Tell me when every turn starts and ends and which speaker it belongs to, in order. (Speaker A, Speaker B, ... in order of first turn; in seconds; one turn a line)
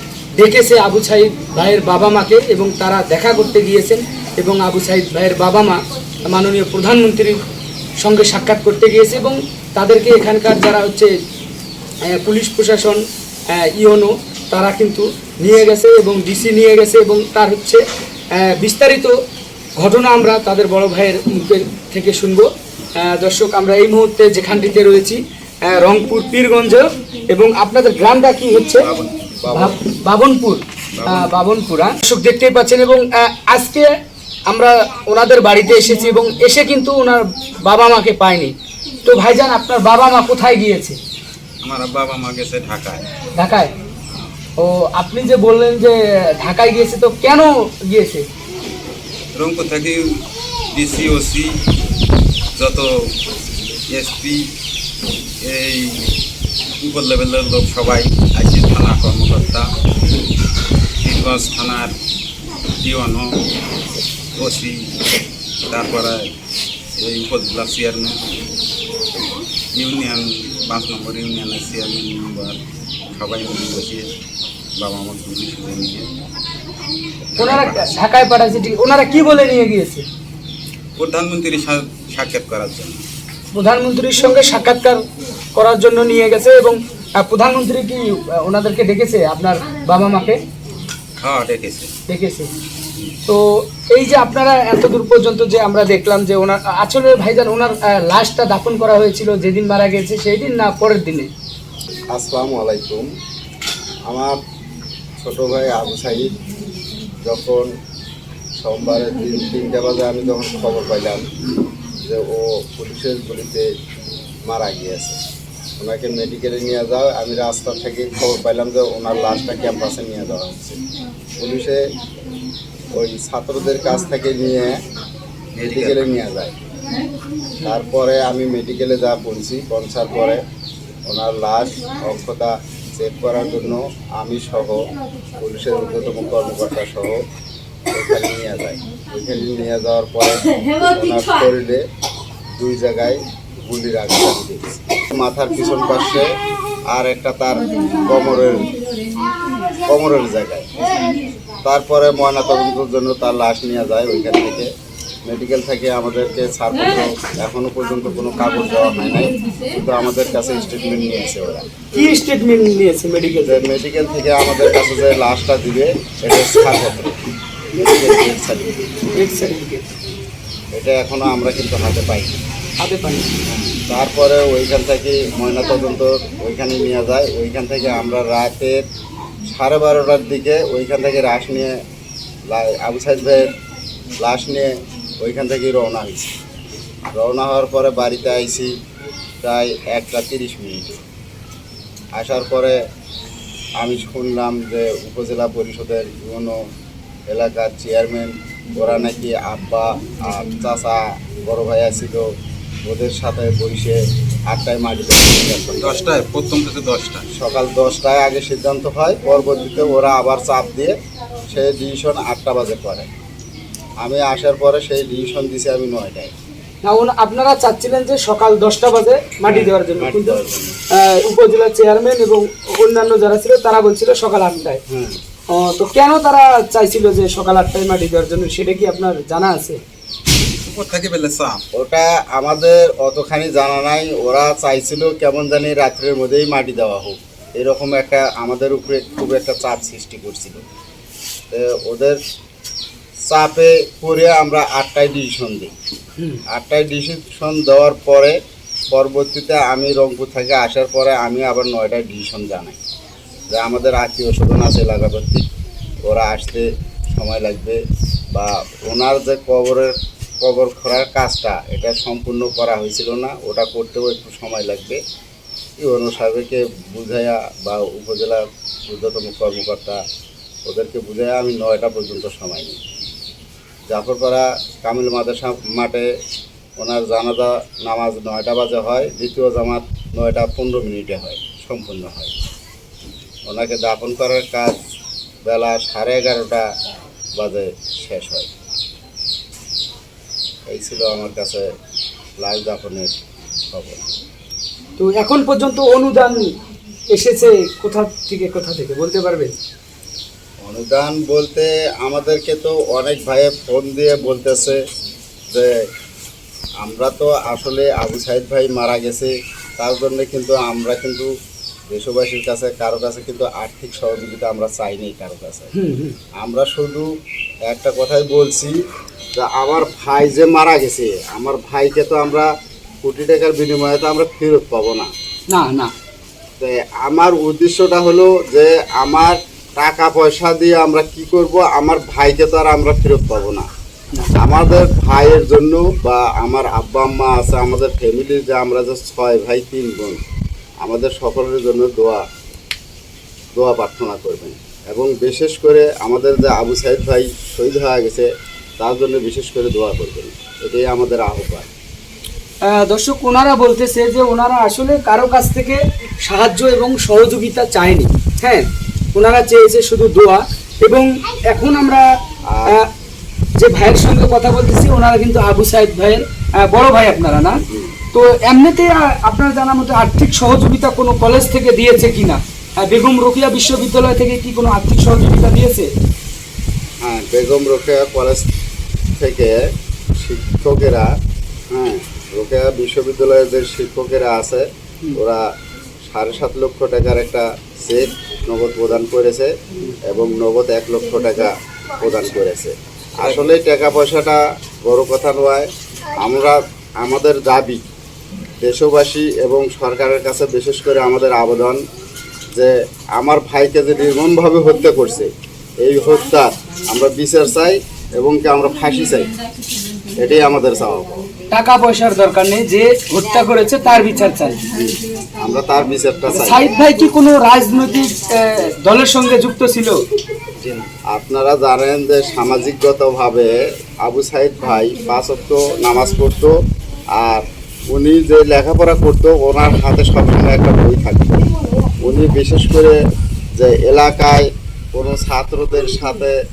Speaker A: 0.4-7.4
Speaker A: 8.0-11.1
Speaker A: 12.1-13.0
Speaker A: 13.5-17.8
Speaker A: 18.3-19.1
Speaker A: 19.8-22.5
Speaker A: 23.0-28.9
Speaker B: 28.8-29.7
Speaker A: 29.5-33.9
Speaker B: 30.9-31.3
Speaker A: 34.5-38.5
Speaker A: 39.0-41.0
Speaker B: 41.6-43.1
Speaker A: 43.4-43.7
Speaker A: 44.6-48.2
Speaker B: 49.4-50.0
Speaker B: 50.7-51.5
Speaker B: 52.6-52.9
Speaker B: 53.9-54.5
Speaker B: 55.4-56.1
Speaker B: 56.8-59.7
Speaker B: 61.0-61.9
Speaker B: 62.8-63.4
Speaker B: 64.4-64.9
Speaker B: 65.7-66.3
Speaker B: 67.0-68.2
Speaker B: 69.8-72.6
Speaker B: 73.1-74.1
Speaker B: 74.8-76.1
Speaker B: 77.2-77.9
Speaker A: 77.4-80.0
Speaker B: 81.0-83.0
Speaker A: 83.5-85.0
Speaker A: 85.5-90.4
Speaker B: 91.2-91.9
Speaker A: 92.1-92.5
Speaker A: 93.3-101.3
Speaker C: 102.1-103.1
Speaker C: 104.1-104.4
Speaker C: 105.2-106.3
Speaker C: 107.2-107.7
Speaker C: 108.6-111.2
Speaker C: 112.0-113.7
Speaker C: 114.5-115.2
Speaker C: 115.8-120.8
Speaker C: 121.4-121.8
Speaker C: 122.9-124.7
Speaker B: 125.5-126.0
Speaker C: 125.7-126.6
Speaker C: 127.6-130.4
Speaker C: 131.1-134.8
Speaker C: 135.4-137.2
Speaker C: 137.9-141.8
Speaker C: 142.6-146.3
Speaker C: 146.9-148.7
Speaker C: 149.8-150.7
Speaker C: 151.6-154.7
Speaker C: 155.3-161.7
Speaker A: 161.9-163.6
Speaker C: 163.4-167.2
Speaker C: 167.7-169.0
Speaker A: 169.2-169.9
Speaker C: 170.7-172.4
Speaker A: 172.8-173.3
Speaker C: 173.5-178.8
Speaker C: 179.4-181.8
Speaker C: 182.5-183.5
Speaker C: 184.2-186.3
Speaker C: 187.1-188.7
Speaker C: 189.4-191.0
Speaker C: 192.2-192.8
Speaker C: 193.8-196.6
Speaker C: 197.3-202.2
Speaker C: 202.8-204.0
Speaker C: 204.5-206.0
Speaker B: 205.8-207.3
Speaker C: 207.3-210.9
Speaker C: 211.5-213.1
Speaker C: 214.0-216.3
Speaker A: 216.8-220.4
Speaker C: 219.5-220.8
Speaker A: 220.9-224.8
Speaker C: 224.9-225.2
Speaker A: 225.5-229.8
Speaker B: 230.4-231.6
Speaker C: 231.7-240.6
Speaker C: 241.5-242.2
Speaker C: 243.3-245.7
Speaker C: 246.5-248.3
Speaker C: 248.9-252.8
Speaker C: 253.5-255.5
Speaker C: 256.1-257.8
Speaker C: 258.3-265.0
Speaker C: 265.8-270.0
Speaker C: 270.7-272.8
Speaker C: 273.9-276.1
Speaker C: 276.8-282.3
Speaker C: 283.5-284.8
Speaker C: 285.5-286.7
Speaker C: 287.4-288.5
Speaker C: 290.7-291.7
Speaker C: 292.4-293.1
Speaker C: 293.7-294.0
Speaker A: 295.0-296.4
Speaker A: 297.1-299.6
Speaker C: 300.6-304.8
Speaker C: 306.8-311.3
Speaker C: 311.9-315.7
Speaker A: 315.7-316.2
Speaker C: 316.4-317.1
Speaker C: 317.7-318.8
Speaker C: 319.4-322.5
Speaker C: 323.0-325.1
Speaker A: 325.5-325.9
Speaker C: 326.6-333.7
Speaker C: 334.4-340.2
Speaker C: 340.8-342.2
Speaker C: 343.6-348.3
Speaker C: 348.8-351.7
Speaker A: 352.6-362.0
Speaker C: 362.5-362.8
Speaker A: 363.6-367.6
Speaker C: 367.7-368.0
Speaker A: 368.1-375.9
Speaker C: 377.0-378.5
Speaker C: 379.2-379.6
Speaker C: 380.2-381.1
Speaker C: 381.7-384.6
Speaker C: 385.2-385.4
Speaker C: 386.1-389.5
Speaker C: 390.1-397.8
Speaker B: 393.2-393.5
Speaker C: 398.6-401.8
Speaker C: 402.6-405.3
Speaker C: 405.8-409.3
Speaker C: 410.2-411.3
Speaker A: 411.5-414.6
Speaker C: 414.7-416.7
Speaker A: 416.3-420.0
Speaker B: 420.6-420.9
Speaker C: 421.1-426.5
Speaker C: 427.2-431.4
Speaker C: 432.0-432.9
Speaker C: 433.6-436.4